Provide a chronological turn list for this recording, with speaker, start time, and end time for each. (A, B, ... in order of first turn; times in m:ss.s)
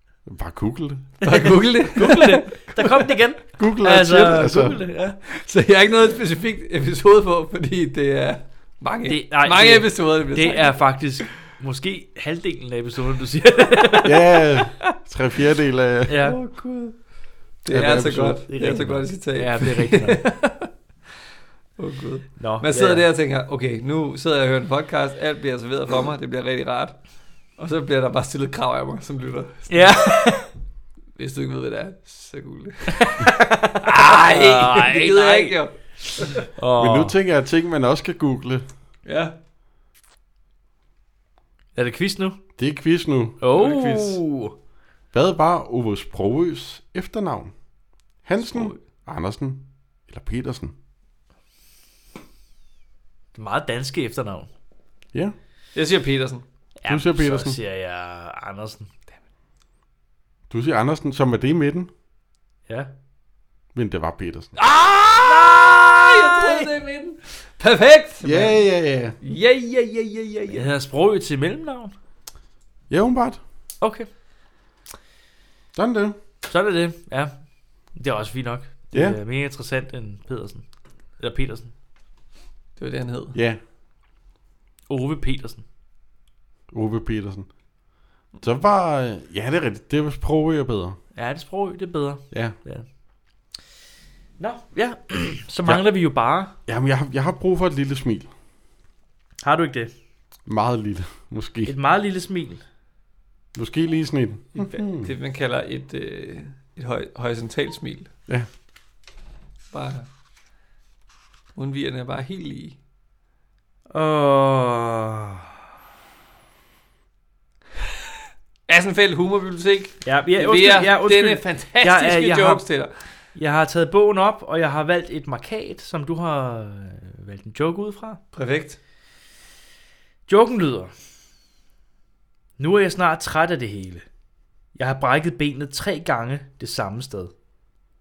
0:00.2-0:01.2 A
0:01.2-0:03.2 B
0:01.2-0:05.2 C
0:03.6-0:04.8 A
0:05.2-0:10.8 B
0:09.1-0:14.6 C
0:14.0-0:16.2 A
0:16.1-0:16.4 C
0:16.2-0:17.0 B
0:17.6-0:20.7 B
0:17.7-0:18.5 A
0:18.5-0:20.3 C
0:21.8-0:27.0 B
0:22.4-0:23.0 C
0:27.6-0:30.3 B
0:29.7-0:30.5 C
0:31.2-0:36.5 B
0:33.0-0:35.6 C
0:36.6-0:37.2 C
0:36.8-0:38.7 A
0:39.0-0:39.4 B
0:41.8-0:42.4 C
0:42.6-0:43.4 A
0:43.4-0:44.6 C
0:43.5-0:44.2 B
0:45.1-0:47.5 A
0:48.2-0:50.7 A
0:48.4-0:48.8 B
0:53.3-0:54.5 C
0:55.7-0:56.4 B
0:56.8-0:58.9 C
0:56.9-0:57.6 A
1:00.5-1:01.9 A
1:03.7-1:04.6 A
1:04.6-1:08.6 B
1:05.0-1:06.7 C
1:08.2-1:09.2 A
1:09.2-1:10.7 B
1:10.5-1:11.9 C
1:12.9-1:13.4 A
1:13.8-1:14.1 C
1:15.8-1:16.2 A
1:16.5-1:17.3 C
1:17.9-1:20.7 C
1:18.9-1:19.2 A
1:21.2-1:21.7 C
1:22.8-1:23.4 B
1:23.4-1:23.6 A
1:24.9-1:25.6 C
1:26.7-1:27.5 A
1:28.4-1:31.0 A
1:31.2-1:32.9 C
1:32.3-1:32.6 A
1:34.4-1:36.5 C
1:36.7-1:38.3 A
1:39.4-1:39.9 C
1:40.5-1:41.7 A
1:41.7-1:42.6 C
1:43.5-1:45.1 A
1:44.6-1:48.1 B
1:49.7-1:50.1 B
1:51.6-1:52.8 B
1:53.9-1:55.5 C
1:58.7-2:03.1 B
2:00.0-2:02.6 C
2:03.3-2:08.2 C
2:08.3-2:08.8 B
2:10.3-2:10.9 C
2:12.6-2:14.0 C
2:14.7-2:17.3 C